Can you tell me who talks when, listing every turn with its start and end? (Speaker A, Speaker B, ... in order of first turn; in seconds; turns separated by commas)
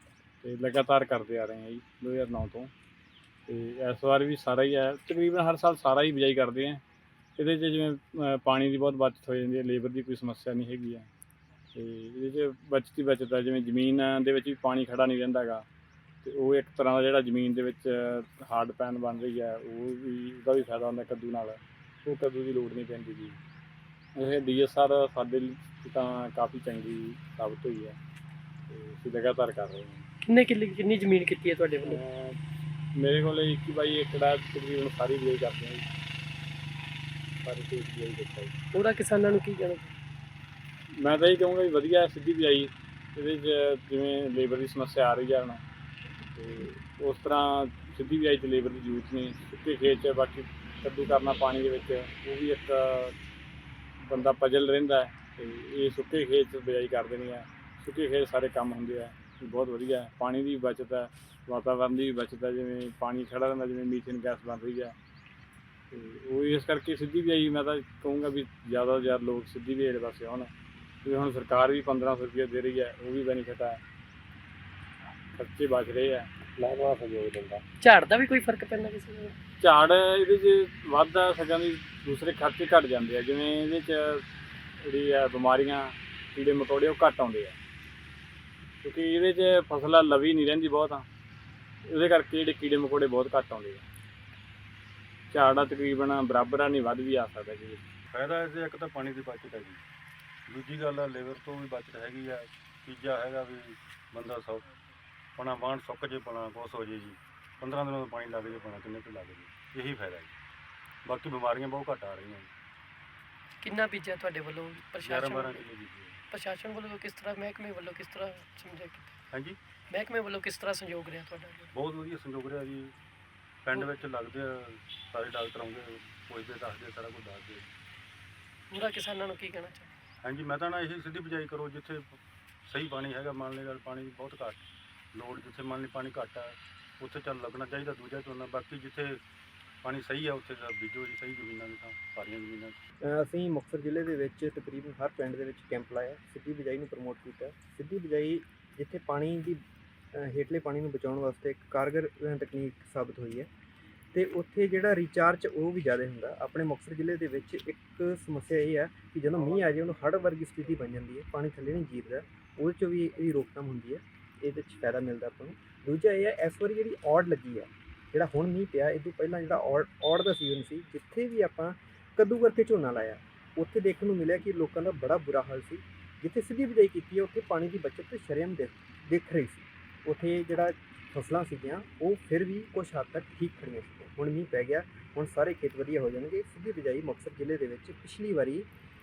Speaker A: 0.4-2.7, Speaker A: 3.5-6.8, Speaker A: 7.4-11.1, Speaker A: 11.7-15.7, Speaker A: 16.2-23.4, Speaker A: 24.2-28.0, Speaker A: 28.7-30.1, Speaker B: 30.2-32.0, Speaker A: 31.8-32.4, Speaker A: 33.0-35.8, Speaker A: 37.4-38.5, Speaker B: 38.7-40.0, Speaker A: 41.0-45.6, Speaker A: 46.3-53.1, Speaker A: 54.0-65.0, Speaker A: 65.9-70.5, Speaker A: 71.0-73.8, Speaker A: 75.3-77.6, Speaker B: 77.8-79.3, Speaker A: 79.6-84.2, Speaker A: 84.8-87.5, Speaker A: 88.8-91.0, Speaker A: 91.9-93.8, Speaker A: 95.3-97.8, Speaker C: 98.1-99.8, Speaker C: 100.5-104.7, Speaker C: 105.4-110.3, Speaker C: 111.0-112.5, Speaker B: 113.6-115.6, Speaker C: 115.0-116.2, Speaker B: 116.3-119.1, Speaker C: 119.3-119.6, Speaker B: 119.9-121.7, Speaker C: 121.7-123.0, Speaker C: 123.6-127.7, Speaker B: 128.7-129.9, Speaker C: 130.2-134.6, Speaker C: 135.1-139.2, Speaker C: 139.8-142.8, Speaker D: 143.0-149.6, Speaker D: 150.1-153.5, Speaker D: 154.1-188.7